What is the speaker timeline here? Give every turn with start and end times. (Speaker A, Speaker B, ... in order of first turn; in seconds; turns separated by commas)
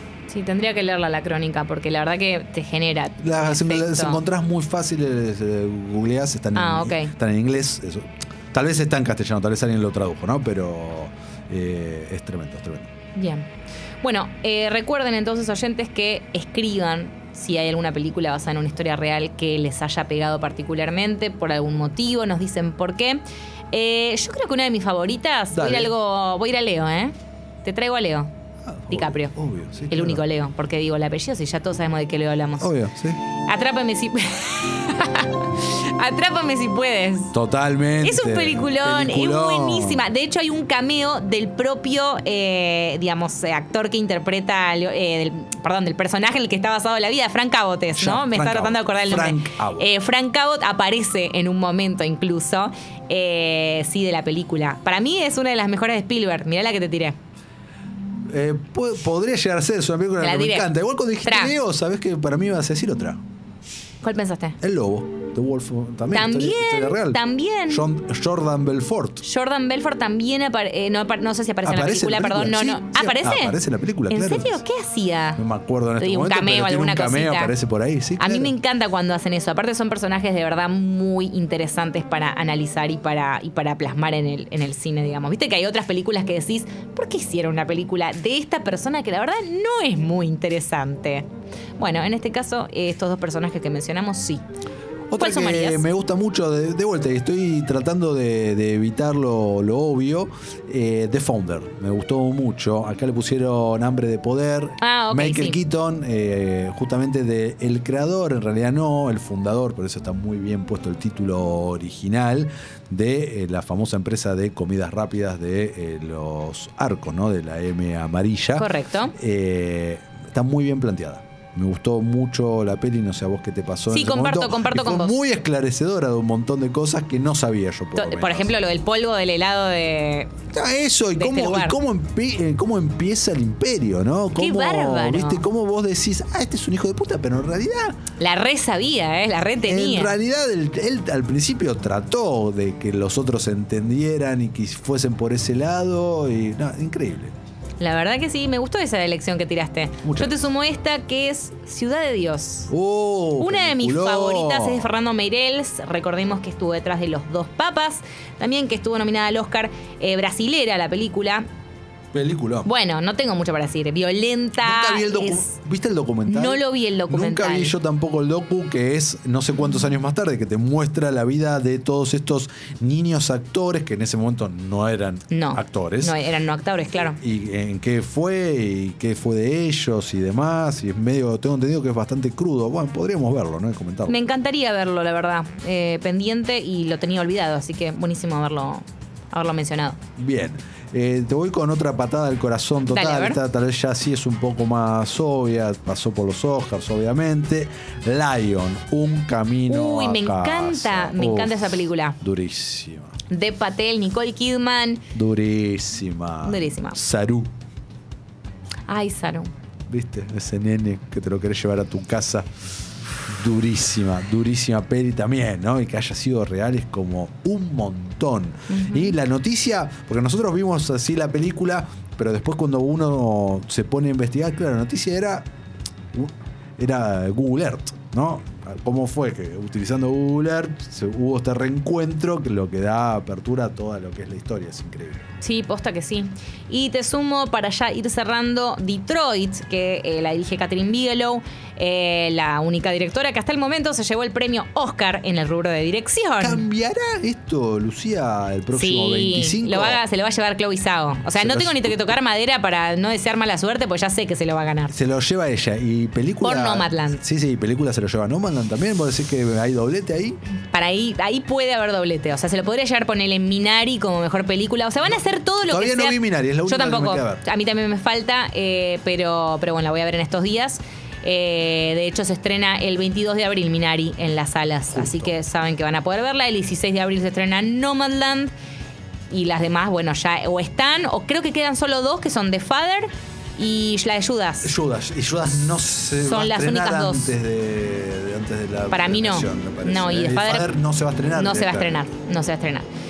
Speaker A: 0.3-4.2, Speaker B: 3.2-12.9, Speaker A: 6.5-7.1, Speaker A: 13.2-13.5, Speaker A: 14.0-28.3, Speaker B: 25.5-25.9, Speaker B: 28.6-30.2, Speaker A: 28.9-29.3, Speaker A: 29.9-32.7, Speaker B: 32.6-33.2, Speaker A: 33.4-37.4, Speaker B: 37.3-40.0, Speaker A: 38.0-57.2, Speaker B: 48.0-49.9, Speaker B: 58.3-63.2, Speaker A: 60.2-60.7, Speaker A: 61.2-61.5, Speaker A: 64.0-64.6, Speaker B: 64.6-69.2, Speaker A: 66.1-67.8, Speaker A: 69.2-73.6, Speaker B: 71.7-74.6, Speaker A: 74.1-75.4, Speaker B: 75.4-78.5, Speaker A: 76.0-77.5, Speaker A: 78.2-91.3, Speaker A: 91.8-94.4, Speaker B: 95.1-128.6, Speaker A: 95.2-95.8, Speaker A: 104.8-105.6, Speaker A: 118.6-119.1, Speaker A: 123.9-125.2, Speaker A: 128.0-130.3, Speaker B: 130.5-138.0, Speaker A: 131.2-131.8, Speaker A: 134.3-135.4, Speaker A: 138.2-140.2, Speaker B: 139.6-147.3, Speaker A: 147.8-152.7, Speaker B: 150.0-150.3, Speaker B: 152.7-154.9, Speaker A: 153.4-161.5, Speaker B: 162.1-162.7, Speaker A: 162.6-165.5, Speaker B: 164.6-176.2, Speaker A: 166.3-167.8, Speaker A: 175.3-177.2, Speaker B: 176.9-184.2, Speaker A: 184.1-190.0, Speaker B: 190.2-203.2, Speaker A: 192.9-193.4, Speaker A: 199.7-202.2, Speaker A: 203.3-205.0, Speaker B: 205.1-207.5, Speaker A: 206.4-207.0, Speaker A: 208.9-209.5, Speaker B: 209.9-212.5, Speaker B: 213.3-225.5, Speaker A: 218.7-219.2, Speaker B: 226.1-235.3, Speaker A: 235.4-246.6, Speaker B: 246.4-250.0, Speaker A: 248.7-254.9, Speaker B: 251.3-252.1, Speaker B: 254.9-260.4, Speaker A: 256.4-257.2, Speaker A: 260.7-278.5, Speaker B: 265.7-267.4, Speaker B: 274.9-275.3, Speaker A: 279.3-284.7, Speaker B: 284.6-292.0, Speaker A: 286.2-287.3, Speaker A: 288.9-290.7, Speaker A: 291.3-292.9